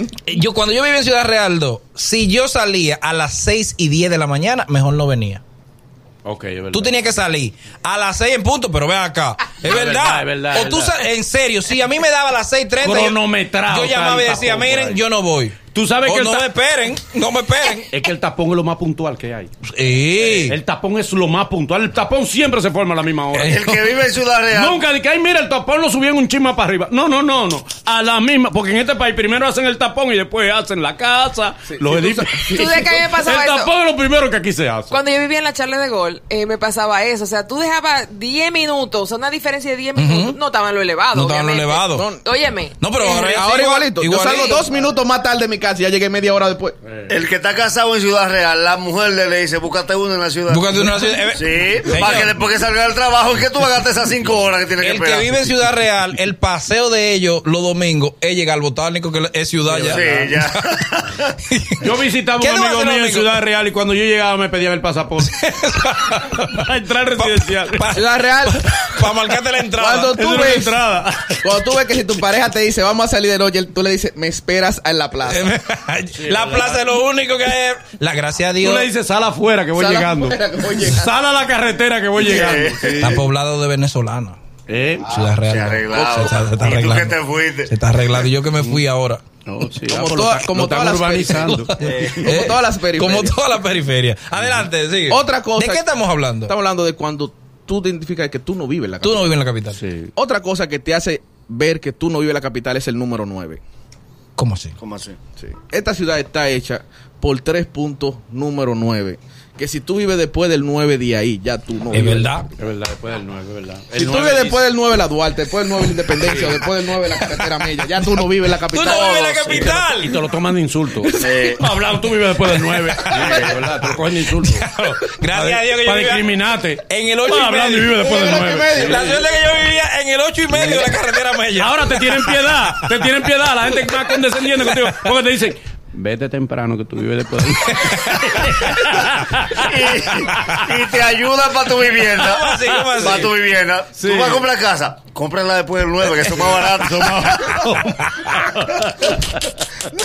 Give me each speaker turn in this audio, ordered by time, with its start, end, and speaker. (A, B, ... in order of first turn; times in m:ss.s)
0:00.2-0:05.4 A
0:06.2-0:07.0 B
0:06.7-0:17.9 A
0:09.6-0:10.9 B
0:12.8-0:15.0 B
0:15.7-0:16.5 B
0:17.9-0:19.5 B
0:19.6-0:20.6 A
0:20.2-0:23.6 B
0:23.3-0:24.0 A
0:23.5-0:24.8 C
0:24.5-0:35.0 B
0:31.7-0:33.1 D
0:32.5-0:33.7 E
0:34.9-0:42.9 E
0:39.9-0:40.4 A
0:41.1-0:42.1 A
0:41.9-0:42.2 D
0:42.8-0:44.5 A
0:43.0-0:46.7 D
0:44.3-0:44.7 E
0:46.8-0:47.1 B
0:47.1-0:55.4 C
0:50.5-0:52.3 A
0:54.8-1:00.5 A
0:59.6-1:00.3 B
0:59.9-1:01.3 C
1:01.5-1:03.4 A
1:01.8-1:05.5 B
1:05.2-1:06.3 A
1:06.2-1:07.8 B
1:07.2-1:10.2 A
1:07.9-1:08.6 D
1:09.8-1:10.8 D
1:10.2-1:11.6 B
1:11.4-1:15.5 D
1:15.3-1:18.9 A
1:16.1-1:16.9 B
1:18.6-1:23.2 B
1:19.7-1:21.1 D
1:22.3-1:23.1 C
1:23.0-1:24.4 A
1:24.7-1:25.2 B
1:25.0-1:29.2 A
1:25.5-1:27.7 C
1:25.9-1:26.2 D
1:29.4-1:32.5 B
1:29.9-1:31.5 D
1:31.4-1:36.5 A
1:31.8-1:32.2 C
1:32.2-1:33.4 D
1:34.4-1:34.6 B
1:35.1-1:35.8 D
1:36.4-1:39.3 D
1:39.0-1:39.8 A
1:39.7-1:40.1 B
1:40.1-1:43.6 D
1:44.4-1:44.7 A
1:44.8-1:45.2 C
1:45.4-1:52.3 D
1:51.9-1:52.4 A
1:52.6-1:54.6 B
1:53.9-1:59.8 D
1:58.7-2:00.1 A
1:58.8-2:04.7 B
2:01.0-2:01.6 D
2:01.2-2:01.6 C
2:02.8-2:03.5 D
2:03.2-2:03.5 C
2:04.6-2:08.0 A
2:05.3-2:09.2 B
2:08.0-2:09.2 D
2:08.8-2:12.7 A
2:10.5-2:10.9 B
2:11.6-2:19.6 B
2:13.8-2:14.9 A
2:17.8-2:18.7 A
2:19.6-2:27.6 C
2:22.1-2:23.3 A
2:24.0-2:24.5 B
2:26.2-2:29.2 B